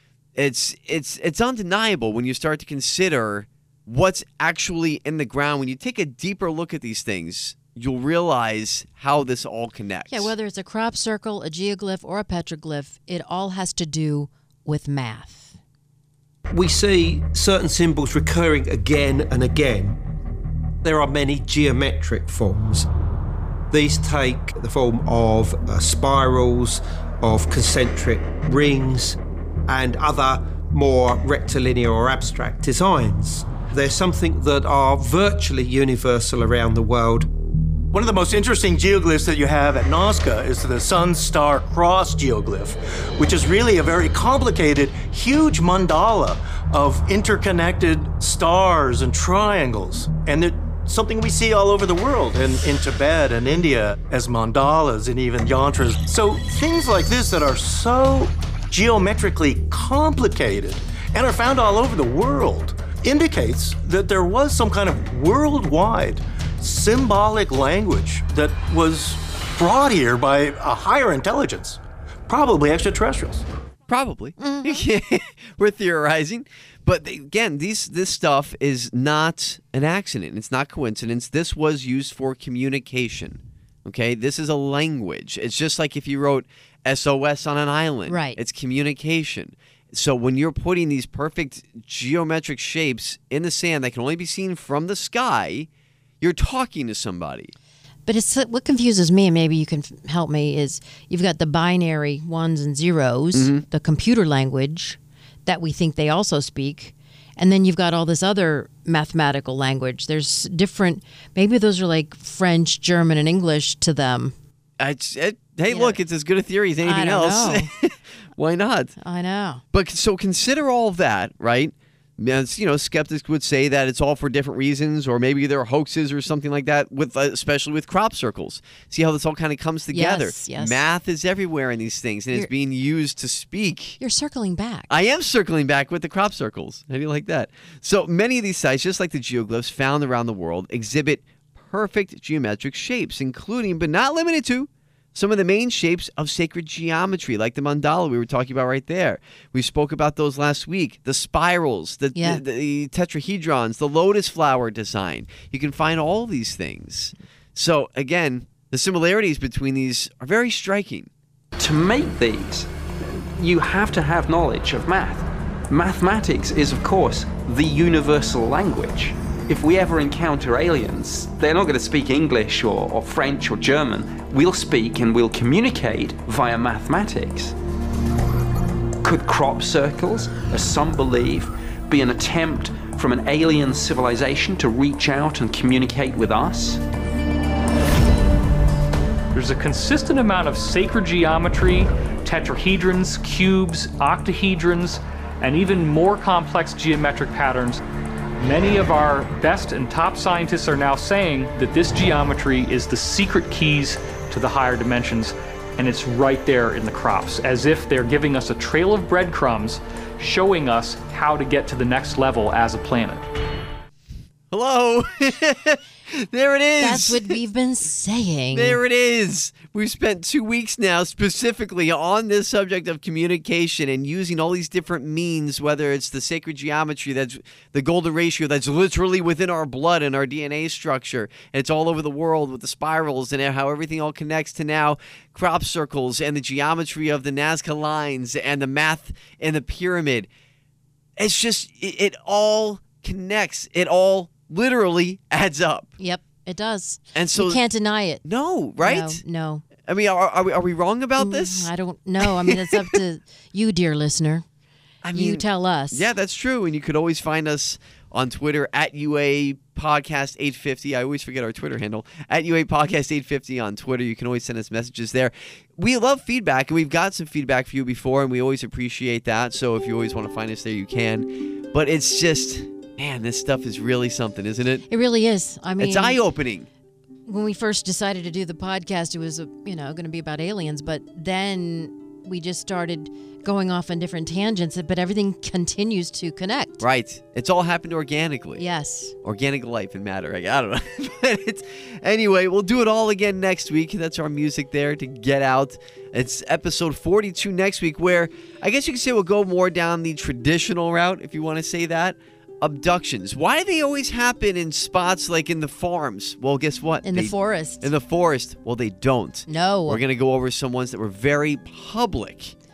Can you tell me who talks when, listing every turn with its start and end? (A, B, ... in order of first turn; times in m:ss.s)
0:00.4-0:10.3 A
0:10.1-0:15.6 B
0:16.5-0:20.0 C
0:20.8-0:22.9 C
0:23.7-0:37.3 C
0:37.9-1:13.5 D
1:13.9-1:35.7 A
1:14.4-1:14.8 B
1:28.1-1:28.4 B
1:36.2-1:37.5 A
1:38.1-1:54.4 B
1:43.3-1:43.6 A
1:54.8-1:59.0 A
1:55.7-1:56.0 B
1:56.8-1:57.7 B
1:59.0-1:59.6 B
1:59.7-2:14.0 A
2:09.9-2:10.8 B
2:14.0-2:14.9 B
2:14.9-2:41.1 A
2:32.2-2:32.4 B
2:41.6-2:57.6 E
2:59.0-3:06.8 E
3:09.3-3:17.8 F
3:18.4-3:33.3 F
3:34.5-3:37.4 A
3:36.8-3:38.8 B
3:38.5-4:00.3 A
4:01.2-4:05.9 A
4:06.0-4:08.2 B
4:07.2-4:07.6 A
4:08.2-4:09.2 A
4:08.8-4:09.6 B
4:09.8-4:11.7 A
4:11.2-4:14.4 B
4:12.2-4:13.0 A
4:15.0-4:34.9 A
4:15.1-4:16.1 B
4:34.9-4:36.2 B
4:35.8-4:36.7 A
4:37.3-4:46.8 B
4:46.8-4:48.6 A
4:48.6-4:49.1 B
4:49.2-5:12.5 A
5:07.0-5:07.9 B
5:09.5-5:10.0 B